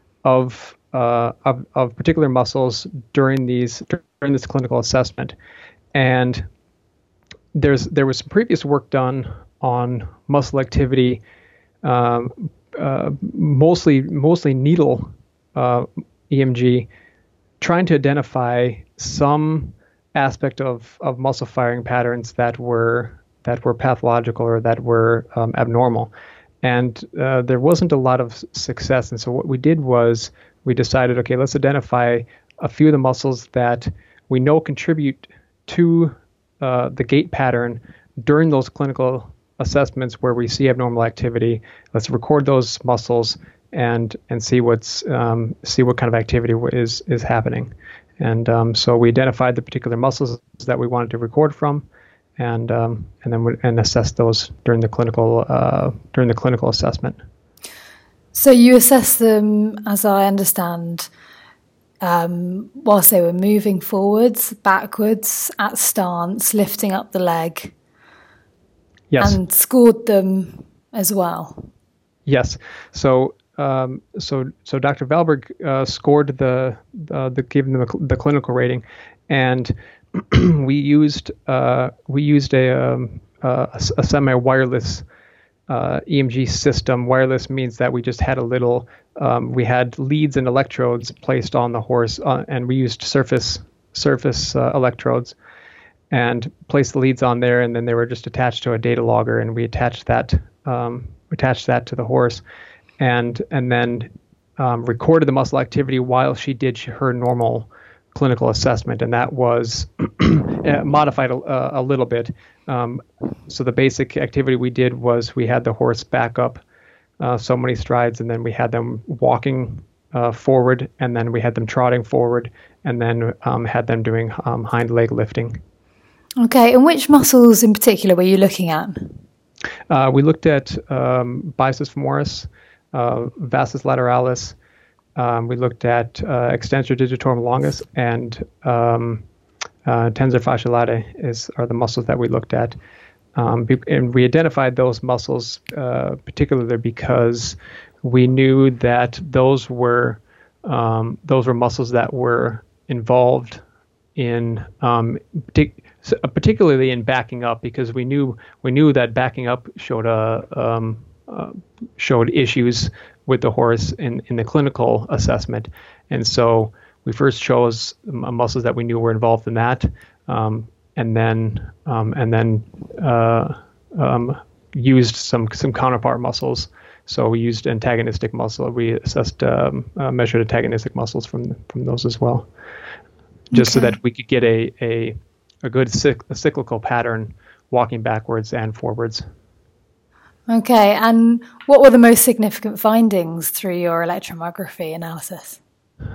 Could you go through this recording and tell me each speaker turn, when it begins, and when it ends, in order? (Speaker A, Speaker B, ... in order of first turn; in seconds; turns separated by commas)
Speaker A: 0.2-5.3, Speaker A: 5.9-6.4, Speaker A: 7.5-11.2, Speaker A: 11.8-16.9, Speaker A: 17.6-26.1, Speaker A: 26.6-51.9, Speaker A: 52.4-57.2, Speaker B: 58.3-61.1, Speaker B: 62.0-67.7, Speaker A: 69.1-69.4, Speaker B: 69.2-71.7, Speaker A: 72.2-85.0, Speaker A: 85.7-95.3, Speaker A: 96.1-102.4, Speaker A: 103.0-116.6, Speaker A: 117.2-125.6, Speaker B: 126.4-129.2, Speaker A: 129.9-134.5, Speaker A: 135.2-139.2, Speaker A: 139.8-142.8, Speaker A: 143.3-153.6, Speaker A: 154.2-182.5, Speaker B: 183.5-183.9, Speaker A: 183.5-189.2, Speaker B: 190.5-195.6